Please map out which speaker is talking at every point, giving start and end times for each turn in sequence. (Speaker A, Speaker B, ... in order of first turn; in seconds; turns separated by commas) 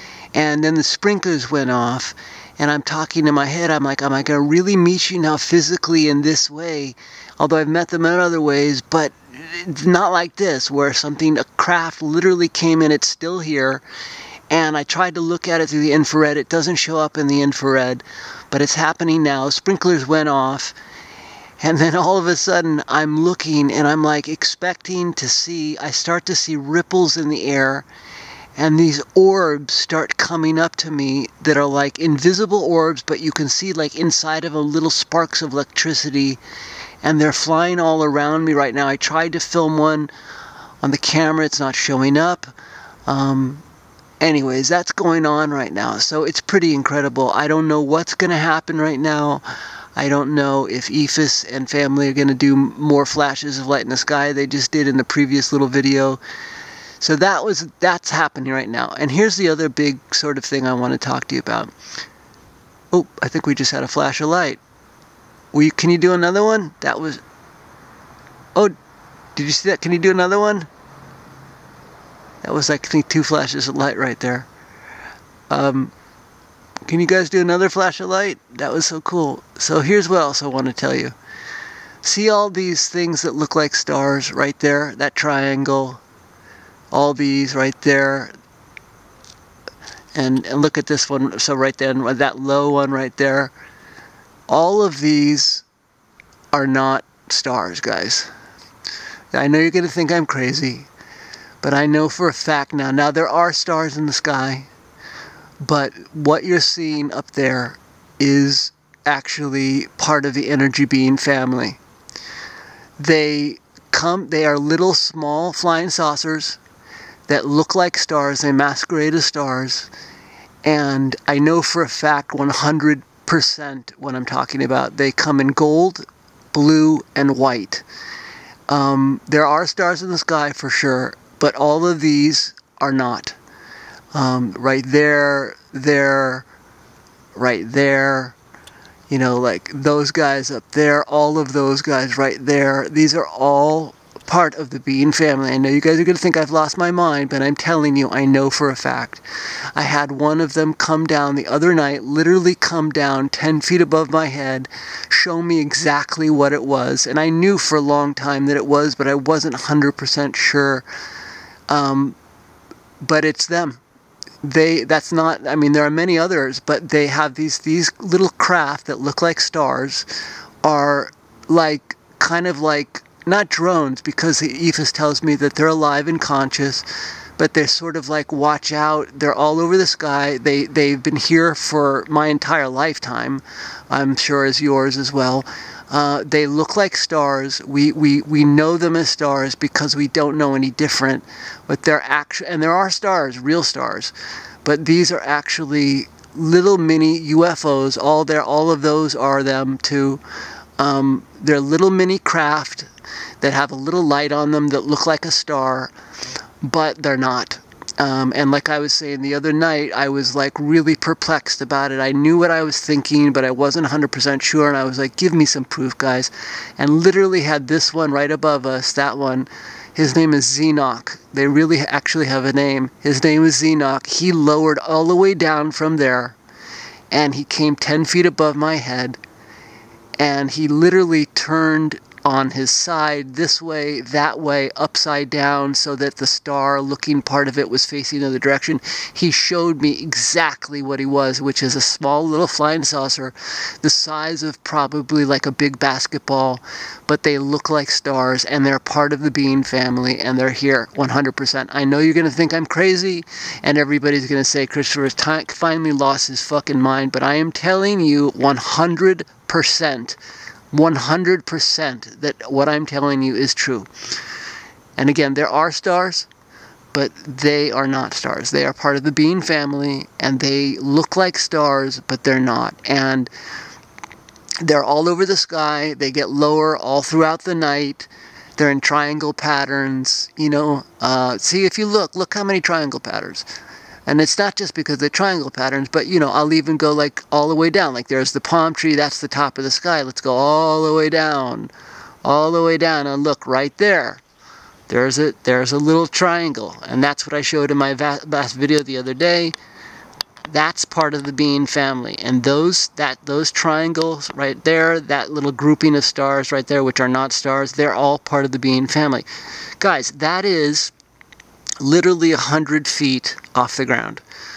Speaker A: 0.3-13.8, Speaker A: 14.5-20.8, Speaker A: 21.6-27.9, Speaker A: 28.6-36.4, Speaker A: 37.0-40.1, Speaker A: 40.8-42.5, Speaker A: 43.1-43.6, Speaker A: 44.2-49.4, Speaker A: 50.0-56.2, Speaker A: 57.0-61.7, Speaker A: 62.9-64.6, Speaker A: 65.5-67.2, Speaker A: 69.3-70.7, Speaker A: 72.4-74.5, Speaker A: 75.5-75.9, Speaker A: 76.8-81.1, Speaker A: 82.0-86.0, Speaker A: 86.9-88.3, Speaker A: 90.1-93.5, Speaker A: 94.5-95.6, Speaker A: 96.5-98.3, Speaker A: 99.3-100.9, Speaker A: 101.6-104.7, Speaker A: 105.6-111.8, Speaker A: 113.0-116.6, Speaker A: 117.3-119.9, Speaker A: 120.6-127.8, Speaker A: 128.7-133.4, Speaker A: 134.1-136.4, Speaker A: 137.3-138.3, Speaker A: 139.1-149.2, Speaker A: 149.7-160.8, Speaker A: 161.7-162.2, Speaker A: 163.0-163.8, Speaker A: 164.4-170.1, Speaker A: 170.6-194.1, Speaker A: 194.6-200.2, Speaker A: 200.8-202.9, Speaker A: 203.4-205.9, Speaker A: 206.6-226.3, Speaker A: 227.1-229.2, Speaker A: 230.2-260.2, Speaker A: 260.7-263.9, Speaker A: 265.0-266.3, Speaker A: 266.9-273.3, Speaker A: 274.6-283.4, Speaker A: 284.1-291.7, Speaker A: 292.2-294.2, Speaker A: 294.9-299.5, Speaker A: 300.5-309.2, Speaker A: 309.8-310.9, Speaker A: 311.8-314.2